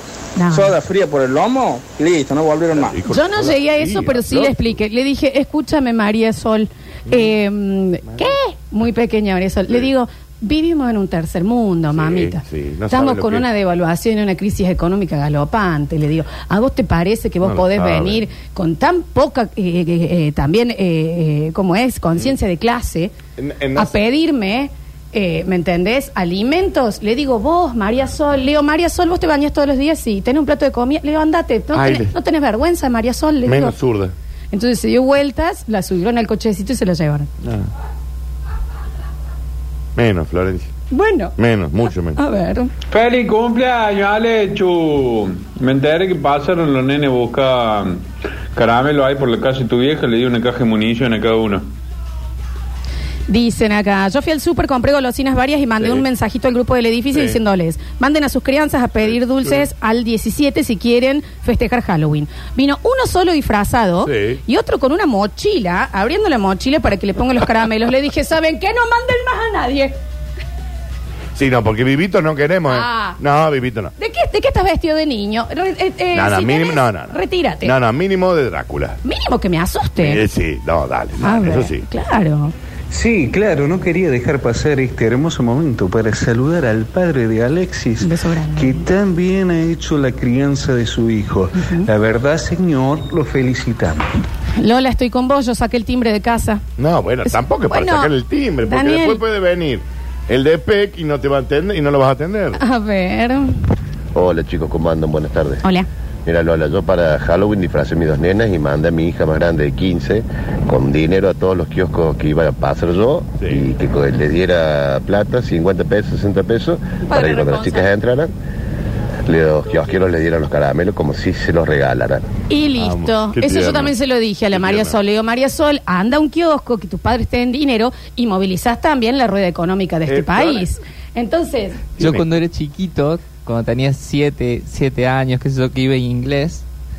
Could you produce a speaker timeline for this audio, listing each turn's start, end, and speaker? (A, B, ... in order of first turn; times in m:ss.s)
0:00.4-0:00.8 A
0:00.5-0:03.0 B
0:02.7-0:04.8 C
0:03.1-0:23.1 A
0:07.1-0:07.3 C
0:08.0-0:08.3 C
0:11.9-0:13.5 C
0:17.4-0:18.2 C
0:23.4-0:24.0 C
0:23.8-0:33.7 A
0:31.7-0:32.1 C
0:33.4-0:34.1 C
0:34.5-0:37.3 A
0:37.4-0:37.7 C
0:39.9-0:40.7 C
0:40.9-0:41.4 A
0:41.4-0:42.2 C
0:42.2-0:42.7 A
0:42.9-0:51.7 D
0:53.3-1:09.9 A
0:59.0-0:59.6 C
1:04.0-1:04.4 C
1:11.4-1:13.9 C
1:12.7-1:13.2 A
1:14.0-1:17.7 A
1:16.1-1:19.0 C
1:19.0-1:20.2 A
1:20.0-1:21.8 C
1:21.2-1:22.5 A
1:22.9-1:28.0 E
1:28.0-1:28.9 A
1:28.7-1:34.1 E
1:31.5-1:31.9 A
1:34.6-1:36.6 A
1:36.8-1:42.6 C
1:37.7-1:38.1 A
1:38.6-1:39.2 A
1:42.6-1:43.6 A
1:44.1-1:45.6 F
1:46.2-1:58.3 F
1:53.4-1:53.7 C
1:57.0-1:57.9 A
1:59.3-2:02.2 F
2:02.5-2:11.8 A
2:02.8-2:04.0 C
2:04.5-2:05.0 C
2:10.1-2:10.7 C
2:12.0-2:12.3 C
2:12.0-2:16.6 G